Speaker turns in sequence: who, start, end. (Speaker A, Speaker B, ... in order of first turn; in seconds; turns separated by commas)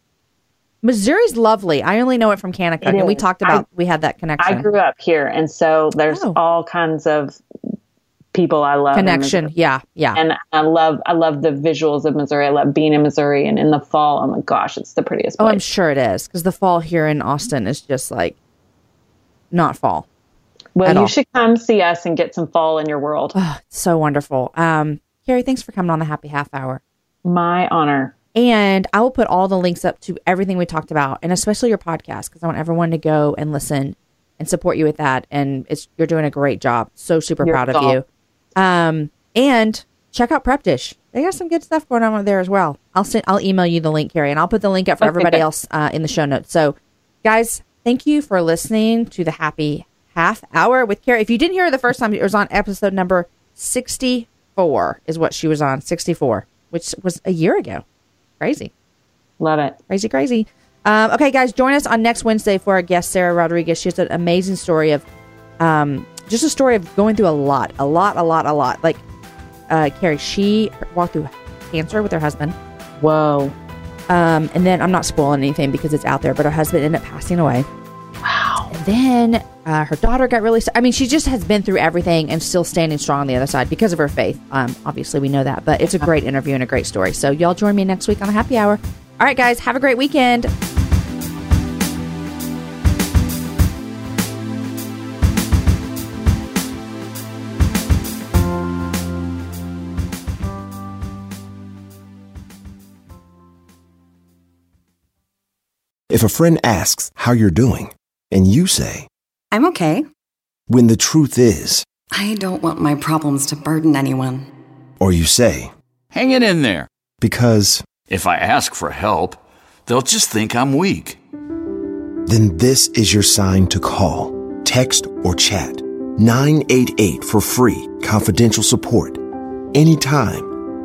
Speaker A: 0.8-4.7, Speaker B: 2.8-3.6, Speaker B: 4.4-7.4, Speaker A: 6.1-6.4, Speaker B: 8.3-9.5, Speaker A: 8.9-10.2, Speaker B: 10.2-15.6, Speaker A: 15.4-18.4, Speaker A: 19.5-20.1, Speaker B: 20.8-23.4, Speaker A: 20.9-21.1, Speaker A: 23.4-26.8, Speaker B: 27.2-28.1, Speaker A: 28.4-38.0, Speaker B: 37.4-38.0, Speaker A: 38.6-57.8, Speaker B: 45.0-45.4, Speaker A: 58.4-58.7, Speaker B: 59.4-59.8, Speaker A: 59.9-65.0, Speaker A: 65.6-69.0, Speaker A: 69.7-72.6, Speaker B: 73.0-73.5, Speaker A: 74.1-77.7, Speaker B: 78.2-78.7, Speaker A: 78.7-90.5, Speaker C: 106.1-109.1, Speaker D: 109.5-110.1, Speaker C: 110.7-111.8, Speaker D: 112.1-114.5, Speaker C: 115.0-115.7, Speaker E: 116.1-116.9, Speaker C: 117.2-117.9, Speaker E: 118.1-121.2, Speaker C: 122.3-129.2, Speaker C: 129.7-130.5